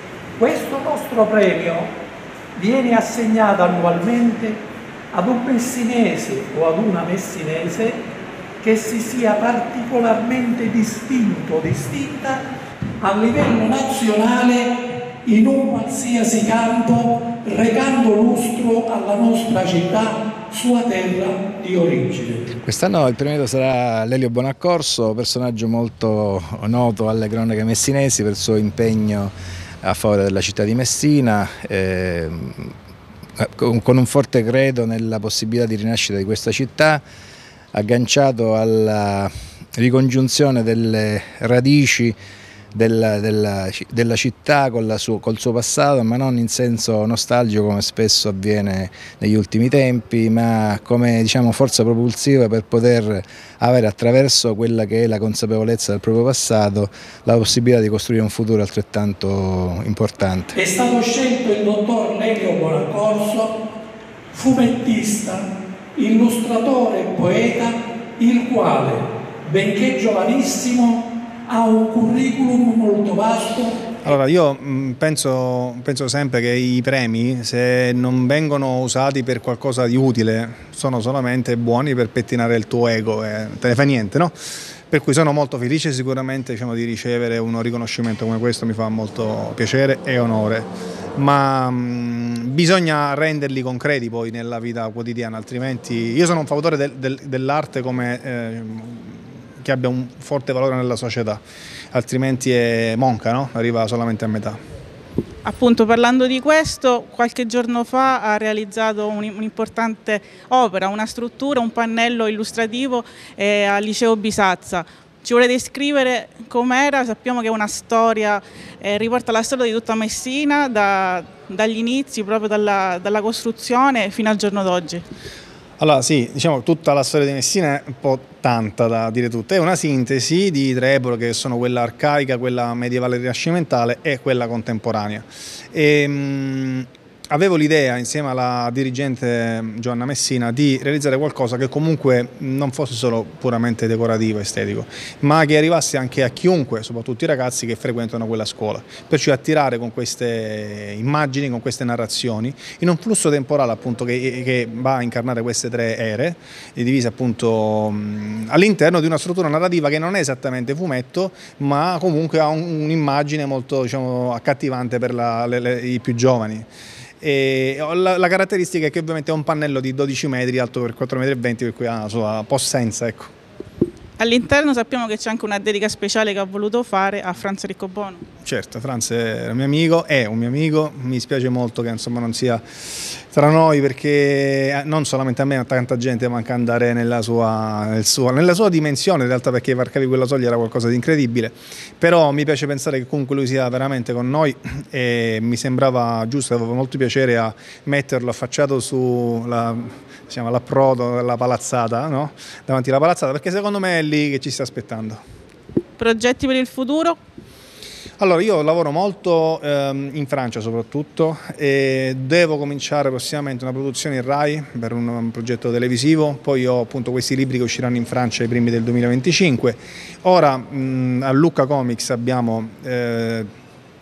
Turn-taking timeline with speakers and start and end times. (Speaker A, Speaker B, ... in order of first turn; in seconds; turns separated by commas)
Speaker A: 0.4-1.9, Speaker A: 2.5-8.0, Speaker A: 8.6-12.4, Speaker A: 13.0-14.7, Speaker A: 15.2-22.5, Speaker B: 22.5-32.7, Speaker B: 33.4-37.0, Speaker B: 37.7-42.1, Speaker B: 42.7-60.5, Speaker A: 60.5-63.5, Speaker A: 64.3-73.8, Speaker C: 74.0-84.3, Speaker C: 84.9-101.4, Speaker C: 101.9-104.6, Speaker D: 105.4-125.0, Speaker C: 125.8-166.7, Speaker C: 167.2-173.3, Speaker D: 174.2-178.2, Speaker C: 178.4-205.2, Speaker D: 206.0-207.2, Speaker C: 208.2-223.5